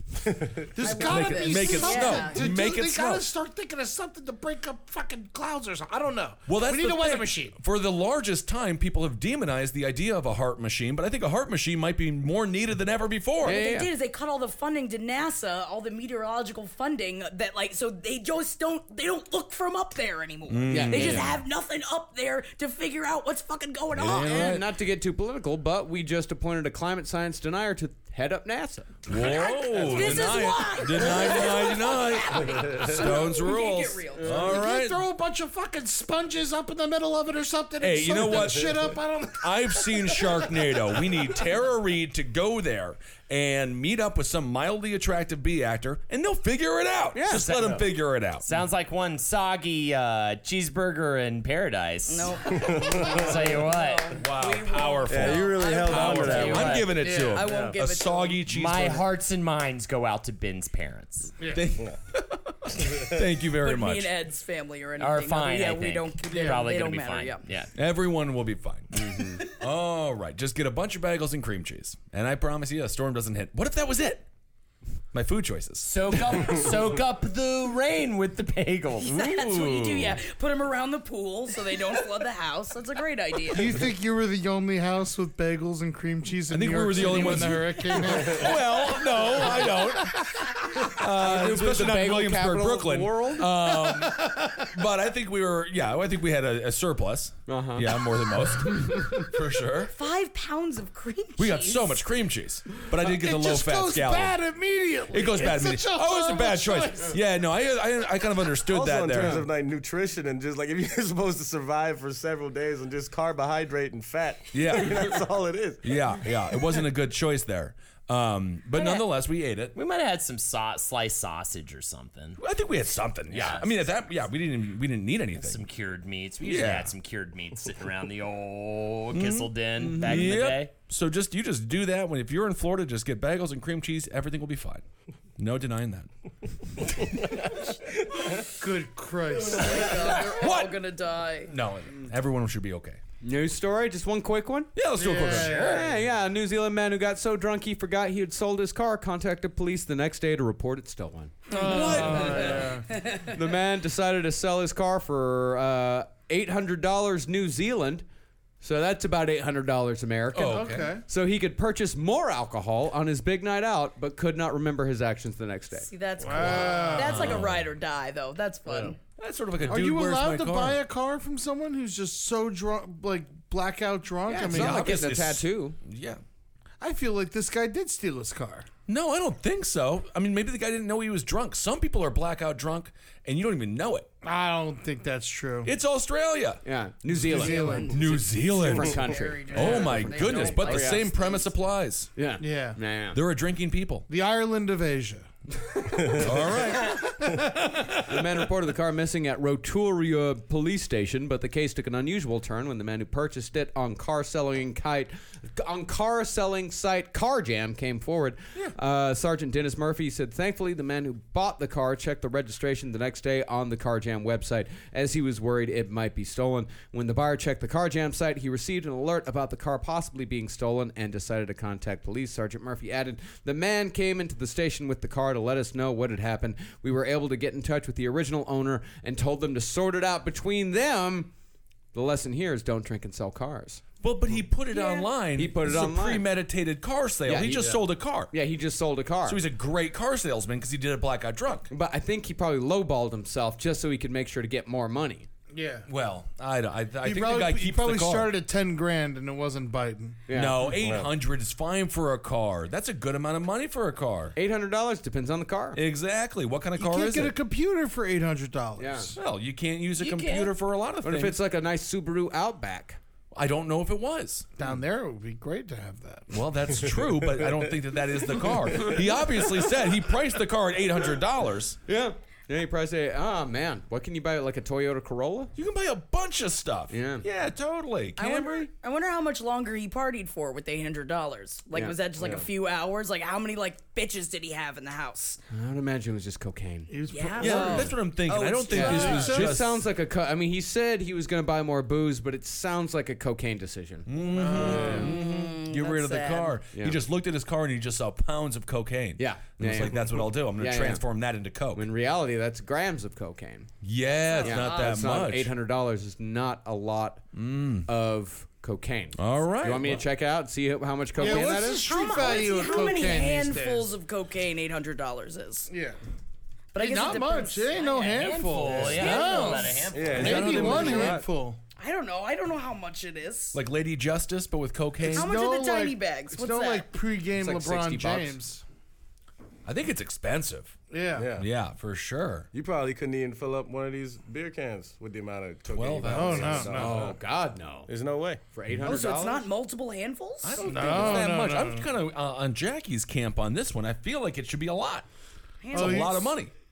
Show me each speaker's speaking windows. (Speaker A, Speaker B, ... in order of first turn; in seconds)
Speaker A: 0.3-0.6, 52.5-53.5, 55.1-56.7, 57.4-57.8, 108.7-116.2, 196.0-196.2, 250.7-251.1, 282.2-282.4, 319.9-321.2, 331.1-331.5, 332.5-337.2, 337.9-338.4
Speaker B: 0.8-7.6, 34.2-41.1, 57.0-57.4, 61.4-61.7, 66.3-66.7, 83.5-90.9, 93.6-94.7, 103.0-107.2, 138.6-140.2, 144.9-145.9, 151.5-152.9, 160.5-161.0, 166.2-167.4, 169.7-174.9, 176.8-178.7, 184.2-185.8, 187.1-188.0, 192.4-192.8, 194.1-195.3, 196.8-197.5, 245.5-245.9, 247.0-250.2, 256.8-259.2, 264.6-266.3, 286.9-287.9, 288.7-289.6, 294.3-295.1, 311.2-313.9, 315.7-316.0, 316.8-321.6, 325.0-328.6, 330.9-331.3, 336.1-337.0, 340.6-341.9, 345.7-346.4
Speaker C: 0.8-2.4, 13.4-24.6, 29.1-34.4, 52.1-58.4, 63.6-67.4, 79.0-83.8, 99.9-102.0, 139.4-141.5, 151.5-153.2, 165.9-169.0, 187.3-188.0, 189.0-191.4, 234.7-235.1, 278.2-285.4, 287.1-289.4, 294.6-296.6, 304.1-305.0, 311.2-315.7, 316.7-319.9, 321.8-323.6, 325.1-326.9, 338.8-340.6, 345.6-346.1
Speaker D: 0.9-3.3, 6.5-13.6, 20.5-21.4, 23.9-24.7, 29.1-35.0, 37.8-48.5, 54.1-59.1, 61.5-64.1, 67.8-74.2, 75.1-76.7, 79.0-80.2, 86.5-99.9, 101.4-104.4, 105.1-109.5, 114.5-115.2, 115.8-119.7, 122.4-125.6, 126.4-126.9, 129.1-134.8, 135.4-136.1, 140.3-140.8, 141.5-143.0, 144.8-145.7, 151.5-152.8, 160.3-161.0, 166.9-167.7, 169.2-170.8, 174.4-176.2, 178.9-184.1, 185.6-186.6, 187.2-192.1, 193.1-194.1, 196.2-197.2, 234.0-238.3, 239.2-241.7, 245.9-248.3, 250.3-254.3, 255.8-257.4, 259.2-261.4, 263.3-264.5, 266.3-271.8, 275.6-278.7, 287.4-289.8, 294.1-301.9, 303.8-305.5, 307.3-307.9, 309.2-310.1, 320.0-321.2, 323.5-325.3, 329.7-330.7, 331.4-332.5, 335.7-336.7, 340.4-345.1, 345.7-346.5
Speaker E: 13.4-13.9, 20.7-21.3, 24.1-29.1, 47.1-47.5, 69.0-69.4, 91.0-93.5, 97.5-98.0, 98.8-99.2, 129.9-130.3, 143.2-144.8, 145.4-151.4, 153.2-158.1, 158.6-165.9, 166.7-166.9, 174.3-175.8, 186.6-191.4, 192.2-193.2, 198.1-231.3, 231.9-233.9, 235.3-236.3, 237.2-239.4, 241.7-245.3, 250.3-250.7, 254.3-255.8, 258.8-259.1, 261.0-263.0, 271.9-275.5, 276.9-277.3, 281.7-282.0, 285.5-286.9, 288.7-295.1, 296.7-297.0, 299.2-301.1, 301.7-303.7, 304.4-307.3, 307.9-313.4, 327.4-328.4, 336.6-337.9, 338.5-339.4
Speaker F: 47.3-47.9, 48.4-54.1, 55.9-56.9, 58.5-61.3, 65.0-67.7, 75.8-79.1, 119.7-122.4, 123.3-123.7, 125.4-130.7, 260.0-260.6, 318.1-320.4